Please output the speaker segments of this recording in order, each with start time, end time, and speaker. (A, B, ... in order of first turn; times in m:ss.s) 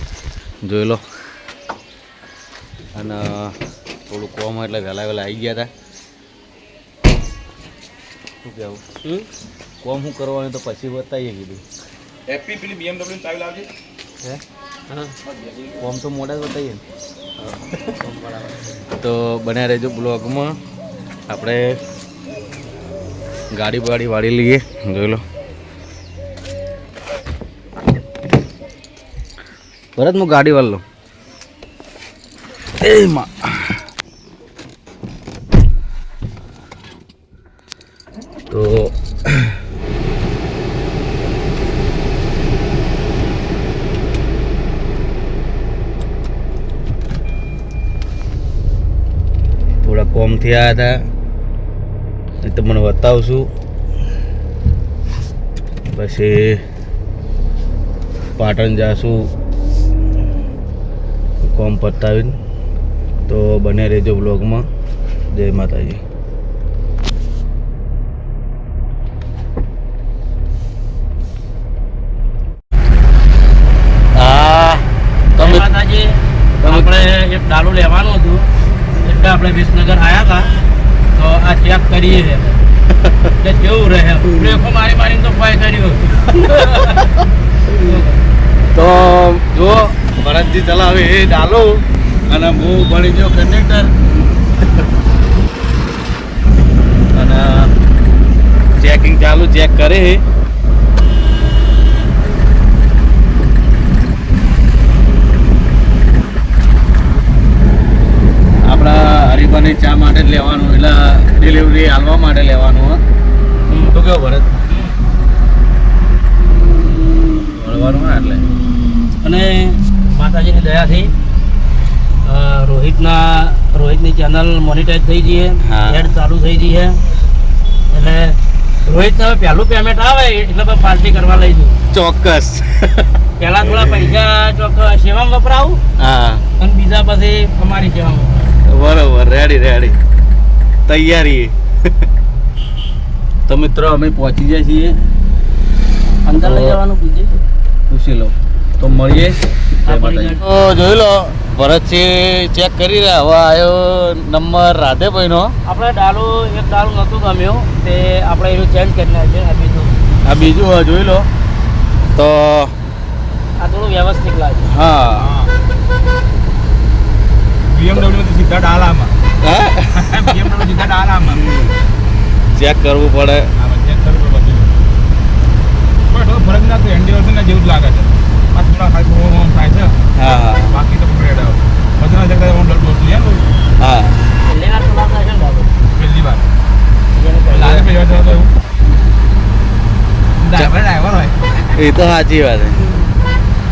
0:00.6-0:01.0 A
0:02.9-0:03.6 A
0:04.1-0:05.7 A
0:08.4-0:08.8 A
0:09.8-0:11.6 A
0:12.3-0:13.7 B
0:15.8-0:16.8 A
0:18.9-0:20.6 A
0:21.3-0:21.8 A
0:23.5-0:25.2 A
0:30.0-0:30.8 A
0:32.8-0:33.7 A
0:38.5-0:39.6 A
0:49.8-0:51.1 A
0:52.4-0:53.5 A
0:55.9-0:56.6 A
0:58.4-0:59.3 A
1:01.4-1:02.4 A
1:03.3-1:04.7 A
1:05.3-1:06.0 A
1:14.1-1:15.6 A
1:15.4-1:18.5 C
1:16.6-1:16.9 A
1:19.0-1:20.5 C
1:21.1-1:22.6 C
1:23.0-1:23.3 A
1:23.4-1:27.0 C
1:26.6-1:27.0 A
1:27.8-1:28.2 C
1:28.7-1:33.9 A
1:37.1-1:37.7 A
1:38.8-1:40.2 A
1:48.6-1:53.0 A
1:53.7-1:53.9 C
1:53.8-1:54.5 A
1:57.5-1:58.4 A
1:59.2-2:01.1 C
2:02.2-2:07.0 C
2:05.6-2:06.1 A
2:07.9-2:11.8 C
2:11.9-2:13.1 A
2:13.4-2:15.8 C
2:13.6-2:14.2 A
2:16.0-2:16.4 A
2:16.6-2:18.5 C
2:18.6-2:20.0 A
2:20.9-2:21.6 A
2:23.5-2:25.0 A
2:26.2-2:27.4 C
2:26.4-2:26.8 A
2:27.9-2:35.6 A
2:29.8-2:30.4 C
2:35.6-2:40.0 C
2:40.2-2:41.3 A
2:42.1-2:42.7 A
2:43.6-2:44.7 C
2:44.6-2:45.3 A
2:45.2-2:45.5 B
2:47.6-2:49.1 B
2:49.4-2:50.4 A
2:49.9-2:51.4 B
2:51.3-2:51.8 A
2:52.6-2:53.5 A
2:53.6-2:54.7 B
2:56.1-3:00.0 B
3:00.2-3:00.8 A
3:00.6-3:03.5 B
3:03.8-3:04.2 A
3:04.5-3:05.7 C
3:05.9-3:06.5 B
3:07.1-3:08.4 C
3:07.5-3:08.5 B
3:10.4-3:11.7 B
3:11.8-3:12.9 A